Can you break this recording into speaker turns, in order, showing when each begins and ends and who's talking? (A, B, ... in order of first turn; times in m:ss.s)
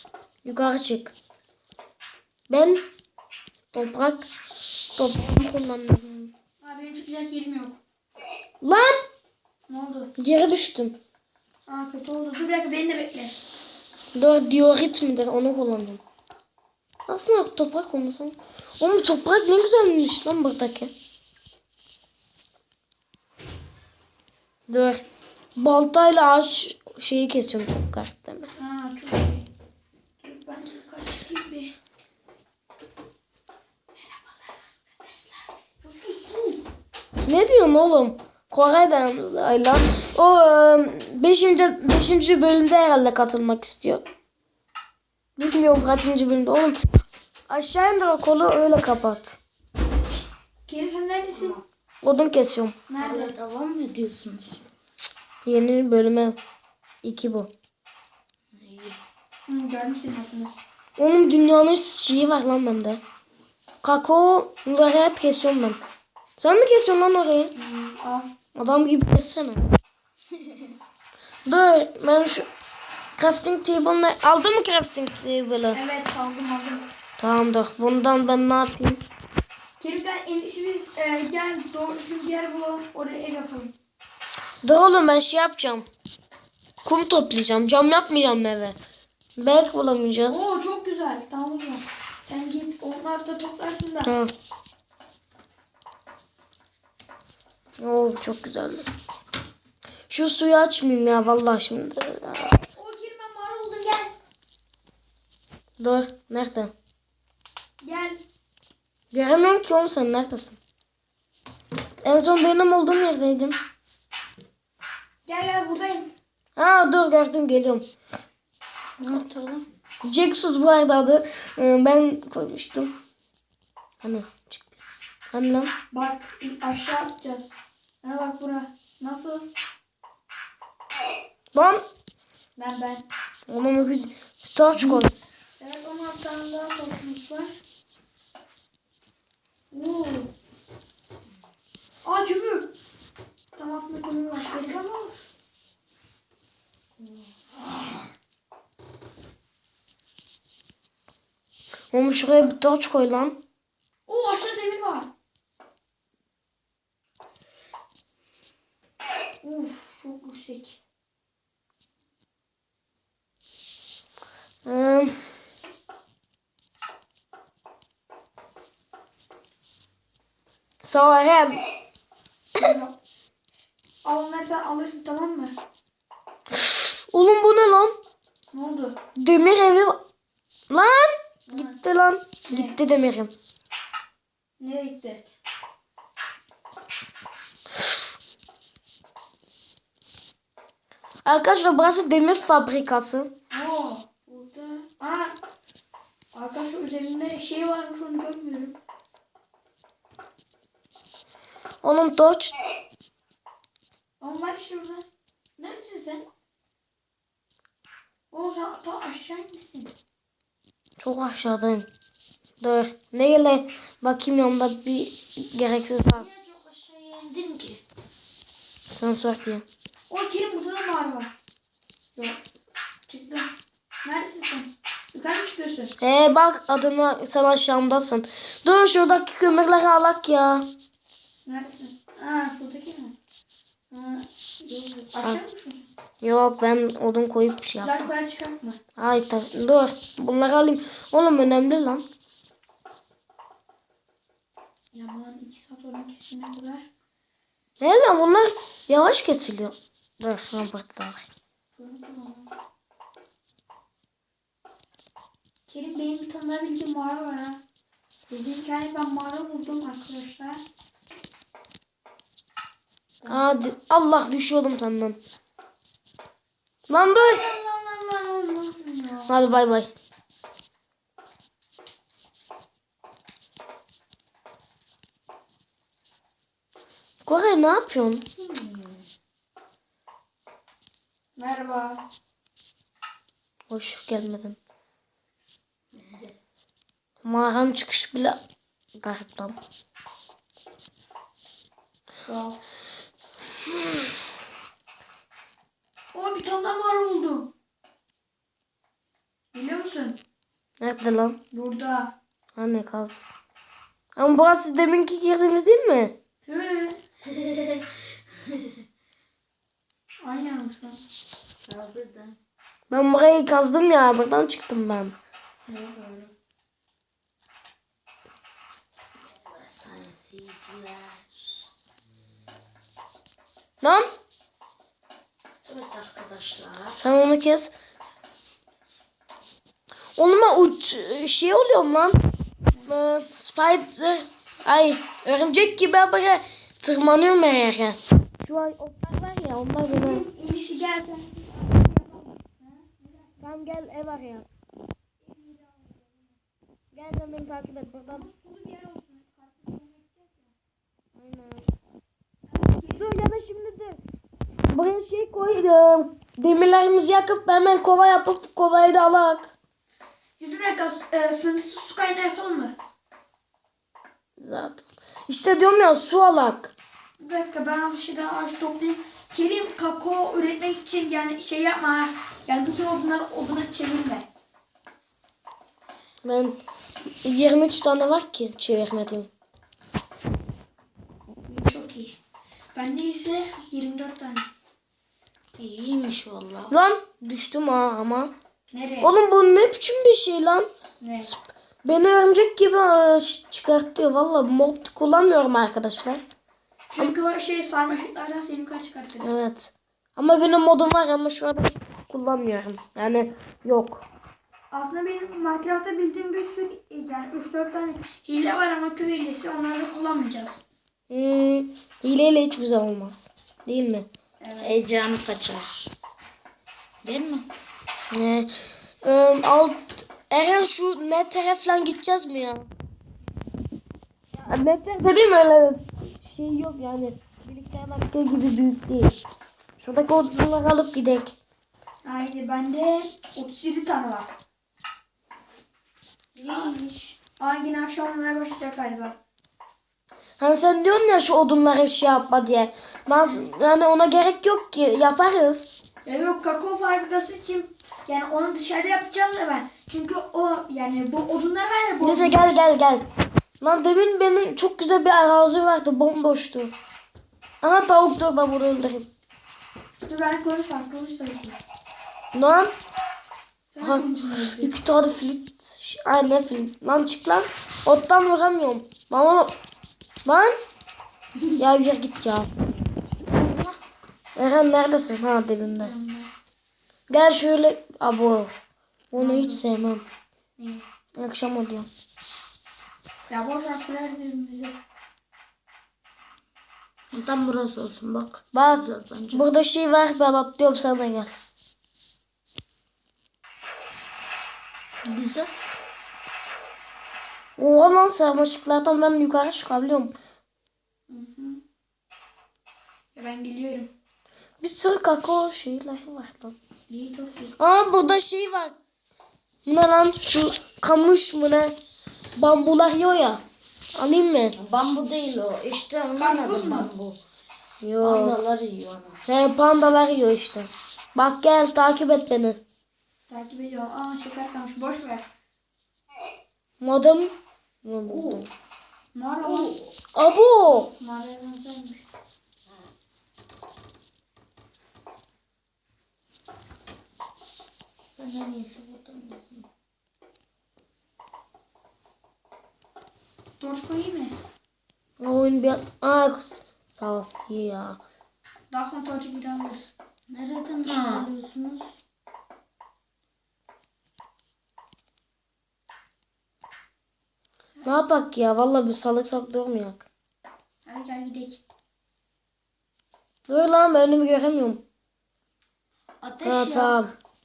0:00.4-0:01.1 A
0:02.5-0:02.8 A
0:03.7-0:04.2 A
0:04.9-0:06.3 A
0:06.6-0:07.8 B
0:08.6-0:08.9 A
0:09.7-0:10.1 B
0:10.2-0:11.0 A
0:11.7-0:13.4 B
0:14.1-0:16.0 A
0:17.1-0:20.9 A
0:24.7-0:25.0 A
0:25.6-0:28.5 A
0:28.6-0:29.4 B
0:30.2-0:31.7 B
0:35.8-0:36.6 B
0:37.2-0:44.0 A
0:45.4-0:46.8 A
0:47.5-0:49.4 A
0:50.6-0:51.6 B
0:51.3-0:51.6 C
0:52.0-0:52.8 A
0:52.9-0:53.3 B
0:53.0-0:54.6 C
0:55.4-0:56.4 A
0:57.0-0:57.5 A
0:58.6-0:59.0 C
0:59.5-1:00.5 B
1:01.0-1:03.0 A
1:03.8-1:05.8 A
1:06.4-1:07.5 A
1:07.5-1:08.3 B
1:08.5-1:09.6 A
1:11.4-1:12.5 A
1:13.2-1:15.8 A
1:15.7-1:16.8 B
1:17.2-1:19.0 A
1:19.8-1:23.7 B
1:24.6-1:25.8 A
1:26.8-1:28.8 A
1:29.4-1:30.5 A
1:30.3-1:34.1 B
1:34.0-1:34.3 A
1:37.8-1:38.8 A
1:40.1-1:42.5 A
1:42.5-1:44.1 B
1:45.8-1:46.7 A
1:47.8-1:48.2 B
1:49.1-1:50.6 A
1:52.0-1:53.6 A
1:55.2-1:56.1 B
1:56.6-1:57.8 A
1:59.0-1:59.6 C
2:00.0-2:02.9 A
2:04.0-2:04.7 A
2:05.3-2:05.7 A
2:05.9-2:07.5 B
2:08.0-2:09.4 B
2:11.5-2:11.8 A
2:12.6-2:13.0 B
2:13.5-2:15.1 A
2:15.6-2:17.5 B
2:19.7-2:20.3 B
2:22.0-2:22.7 B
2:23.5-2:25.3 B
2:31.9-2:33.4 A
2:34.1-2:35.1 B
2:39.4-2:40.8 B
2:44.6-2:45.2 A
2:50.8-2:51.6 A
2:52.6-2:52.9 B
2:54.0-2:55.5 B
2:56.5-2:57.9 A
2:58.5-2:59.0 B
2:59.2-3:00.0 A
3:00.7-3:03.3 A
3:01.5-3:01.8 B
3:02.5-3:02.8 B
3:04.6-3:05.2 B
3:11.2-3:13.3 A
3:13.5-3:15.4 B
3:16.3-3:18.8 B
3:21.8-3:22.6 A
3:24.2-3:25.0 B
3:25.6-3:26.2 B
3:28.3-3:29.9 B
3:31.0-3:31.9 A
3:32.6-3:36.3 A
3:36.1-3:37.8 C
3:38.9-3:39.6 A
3:40.1-3:41.3 B
3:43.1-3:43.5 B
3:44.0-3:45.9 B
3:46.0-3:50.6 A
3:51.4-3:53.1 B
3:53.9-3:55.8 B
3:56.2-3:58.0 A
3:57.8-3:58.8 B
3:59.0-4:02.0 A
4:04.9-4:06.8 B
4:07.8-4:11.2 A
4:11.8-4:12.5 B
4:15.7-4:17.6 B
4:18.3-4:20.6 B
4:23.3-4:25.2 A
4:26.9-4:27.4 A
4:27.1-4:29.4 B
4:29.3-4:29.9 A
4:37.2-4:38.2 A
4:38.4-4:39.0 C
4:41.4-4:42.0 B
4:43.7-4:44.6 A
4:45.9-4:46.3 C
4:47.2-4:48.4 A
4:49.0-4:49.6 A
4:52.2-4:52.6 B
4:56.1-4:57.5 B
4:59.5-5:00.2 B
5:00.8-5:01.4 A
5:01.5-5:02.1 B
5:02.6-5:03.2 A
5:04.2-5:06.1 A
5:06.4-5:07.0 B
5:07.3-5:07.9 C
5:10.2-5:11.0 B
5:11.6-5:12.4 C
5:12.9-5:15.1 A
5:15.7-5:16.3 B
5:19.3-5:21.3 C
5:25.6-5:27.0 C
5:27.0-5:27.7 A
5:30.2-5:32.2 A
5:32.8-5:40.2 A
5:39.8-5:43.5 B
5:43.4-5:44.5 A
5:45.2-5:46.4 B
5:46.9-5:48.3 A
5:48.1-5:50.5 B
5:51.2-5:51.6 A
5:52.5-5:53.2 B
5:53.0-5:54.0 A
5:54.7-5:59.5 A
6:00.4-6:02.7 B
6:04.4-6:06.7 A
6:07.2-6:14.2 B
6:16.2-6:16.6 A
6:17.2-6:19.3 A
6:21.4-6:22.1 B
6:22.7-6:24.5 B
6:25.6-6:26.7 C
6:26.7-6:28.3 A
6:28.7-6:29.1 B
6:29.0-6:30.7 A
6:31.0-6:31.3 B
6:31.2-6:36.2 A
6:36.9-6:39.3 B
6:39.2-6:44.0 A
6:44.7-6:50.6 B
6:51.1-6:54.1 A
6:54.4-6:54.8 B
6:54.6-6:55.9 C
6:57.0-6:57.5 C
6:58.1-7:02.7 A
7:04.4-7:09.2 A
7:09.8-7:11.4 A
7:12.0-7:14.3 B
7:16.4-7:17.1 C
7:16.4-7:19.2 B
7:20.4-7:25.8 A
7:26.0-7:32.5 B
7:32.0-7:33.0 A
7:33.6-7:36.7 A
7:37.6-7:39.1 A
7:40.1-7:41.6 B
7:42.3-7:42.7 A
7:43.7-7:44.8 B
7:43.8-7:49.5 A
7:50.2-7:50.5 A
7:51.6-7:52.5 A
7:53.2-7:53.8 B
7:54.4-7:55.9 A
7:55.6-7:56.3 B
7:57.1-7:58.5 A
7:59.1-8:00.0 A
7:59.1-7:59.6 B
8:00.6-8:00.8 B
8:01.2-8:01.9 A
8:03.3-8:04.8 B
8:07.1-8:09.4 C
8:08.5-8:11.3 A
8:15.0-8:15.5 C
8:17.6-8:20.1 A
8:21.1-8:21.6 B
8:23.1-8:23.9 B
8:24.6-8:26.5 A
8:26.9-8:27.5 B
8:27.6-8:28.7 A
8:29.6-8:31.7 A
8:32.4-8:33.4 A
8:33.9-8:34.6 A
8:34.6-8:37.2 C
8:36.2-8:36.9 B
8:37.8-8:38.4 A
8:38.0-8:39.2 C
8:39.2-8:42.6 A
8:43.3-8:45.2 B
8:46.8-8:47.3 A
8:47.8-8:48.5 A
8:48.1-8:48.4 C
8:49.1-8:49.8 B
8:49.4-8:49.9 C
8:50.1-8:50.9 A
8:50.7-8:52.0 B
8:58.2-8:59.6 C
9:03.6-9:04.3 B
9:05.2-9:08.0 A
9:08.7-9:09.9 B
9:10.3-9:12.0 C
9:10.8-9:11.3 B
9:17.8-9:20.0 A
9:20.8-9:21.6 B
9:23.5-9:24.8 A
9:26.2-9:27.1 C
9:26.4-9:27.1 A